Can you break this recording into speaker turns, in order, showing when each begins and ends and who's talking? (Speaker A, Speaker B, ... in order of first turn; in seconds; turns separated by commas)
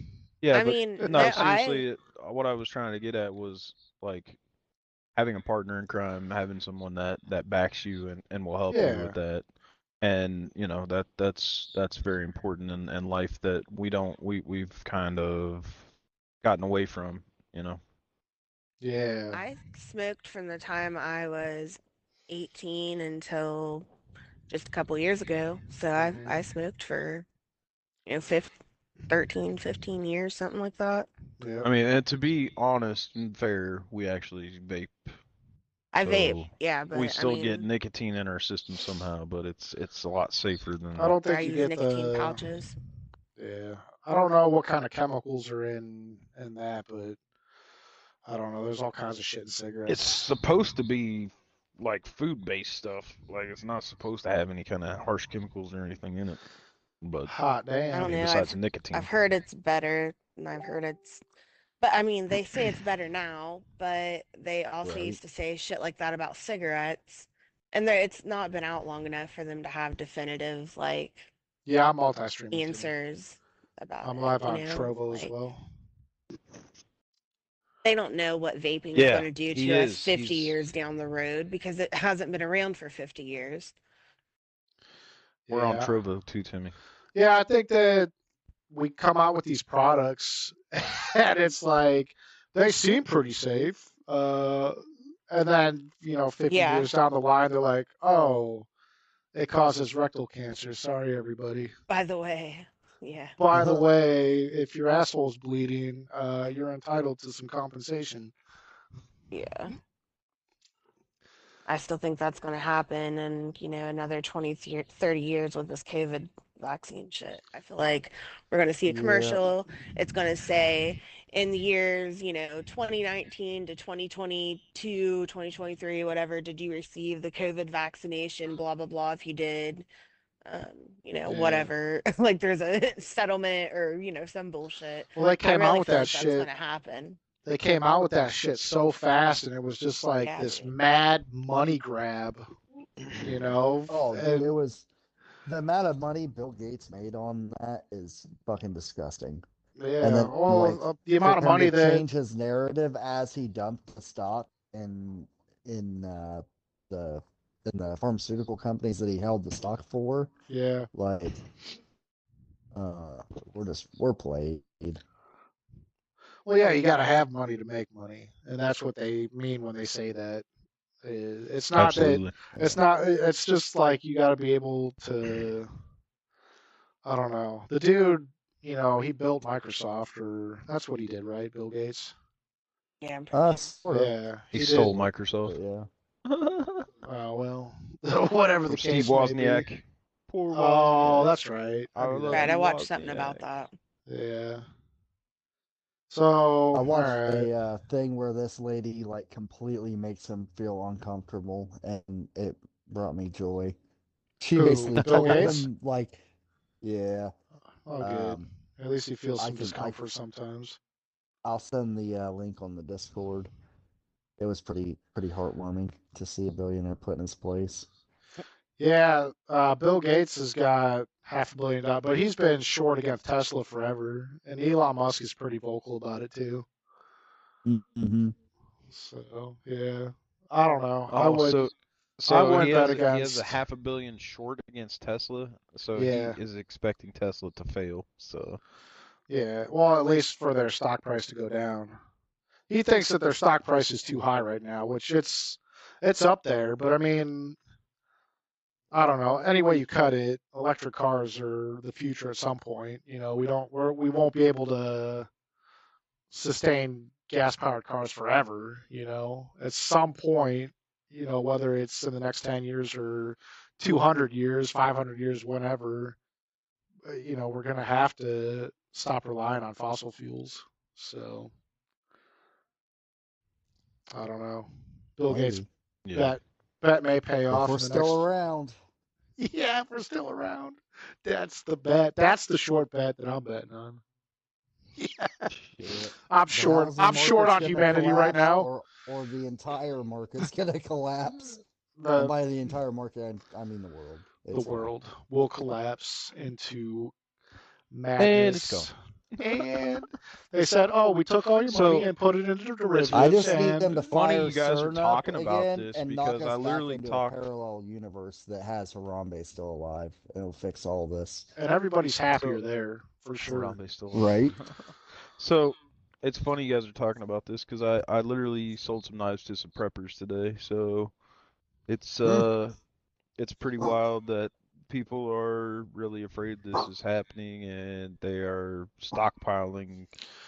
Speaker A: 0.4-4.4, Speaker B: 0.5-1.9, Speaker C: 1.0-1.5, Speaker A: 5.2-9.4, Speaker C: 8.7-9.2, Speaker A: 10.0-15.8, Speaker A: 16.4-17.8, Speaker C: 18.8-19.4, Speaker B: 19.3-23.9, Speaker B: 24.5-27.3, Speaker C: 25.9-26.4, Speaker B: 28.1-28.6, Speaker B: 29.1-31.1, Speaker C: 31.4-31.7, Speaker A: 31.6-35.1, Speaker B: 35.9-37.7, Speaker A: 36.0-41.2, Speaker C: 41.0-42.4, Speaker B: 41.2-42.8, Speaker C: 43.4-47.2, Speaker C: 48.2-50.1, Speaker A: 49.9-56.4, Speaker A: 57.0-57.3, Speaker C: 57.3-58.1, Speaker B: 57.9-61.2, Speaker A: 58.0-59.1, Speaker B: 61.8-71.3, Speaker D: 64.8-65.2, Speaker C: 71.7-72.9, Speaker B: 72.5-75.3, Speaker C: 74.0-75.6, Speaker B: 77.8-83.8, Speaker A: 78.9-80.6, Speaker C: 85.5-85.9, Speaker A: 85.5-86.8, Speaker C: 87.2-88.1, Speaker C: 88.7-94.8, Speaker C: 95.3-98.7, Speaker B: 96.5-96.9, Speaker C: 99.3-101.7, Speaker B: 101.9-103.4, Speaker C: 103.4-108.3, Speaker D: 103.5-103.8, Speaker B: 109.3-109.7, Speaker B: 111.7-129.9, Speaker D: 118.9-119.5, Speaker B: 130.5-137.2, Speaker C: 131.2-131.7, Speaker C: 135.2-136.5, Speaker C: 137.4-142.5, Speaker B: 140.2-140.7, Speaker C: 143.2-144.5, Speaker D: 143.9-144.9, Speaker D: 145.5-149.4, Speaker C: 149.8-152.1, Speaker D: 150.0-160.3, Speaker C: 160.5-160.9, Speaker D: 160.9-161.4, Speaker D: 162.7-165.0, Speaker C: 166.5-170.4, Speaker C: 171.0-175.7, Speaker A: 171.8-172.4, Speaker C: 177.1-182.1, Speaker B: 183.0-183.7, Speaker D: 183.3-184.1, Speaker C: 183.9-184.9, Speaker A: 184.5-185.6, Speaker D: 184.9-185.9, Speaker A: 186.2-186.9, Speaker C: 187.0-189.7, Speaker A: 188.7-191.3, Speaker C: 190.5-192.5, Speaker A: 191.9-193.4, Speaker B: 192.3-193.7, Speaker C: 194.1-194.6, Speaker C: 196.1-197.5, Speaker D: 196.7-203.8, Speaker D: 204.4-206.2, Speaker C: 204.6-205.6, Speaker A: 205.1-205.4, Speaker D: 206.8-207.3, Speaker C: 207.9-210.8, Speaker D: 208.0-208.5, Speaker D: 209.4-210.0, Speaker D: 211.4-213.5, Speaker D: 214.4-217.9, Speaker C: 218.8-226.7, Speaker D: 227.7-228.3, Speaker C: 228.9-231.6, Speaker A: 231.1-238.6, Speaker C: 232.3-233.6, Speaker C: 235.9-236.4, Speaker C: 239.3-242.0, Speaker C: 242.7-247.6, Speaker C: 248.9-255.3, Speaker C: 256.3-266.2, Speaker C: 267.1-271.5, Speaker C: 274.1-275.6, Speaker D: 275.3-275.7, Speaker A: 276.1-276.4, Speaker C: 276.1-278.2, Speaker D: 277.5-278.8, Speaker C: 279.4-284.0, Speaker C: 285.0-285.5, Speaker A: 285.5-286.0, Speaker D: 285.8-291.6, Speaker C: 286.3-288.7, Speaker C: 292.0-292.4, Speaker D: 292.1-294.9, Speaker C: 294.5-297.1, Speaker C: 297.9-303.9, Speaker A: 298.2-299.6, Speaker A: 301.7-302.1, Speaker A: 303.0-307.4, Speaker D: 303.1-311.5, Speaker C: 311.6-313.8, Speaker A: 312.3-312.6, Speaker A: 313.4-321.1, Speaker D: 314.1-314.6, Speaker A: 321.9-322.8, Speaker A: 323.4-330.1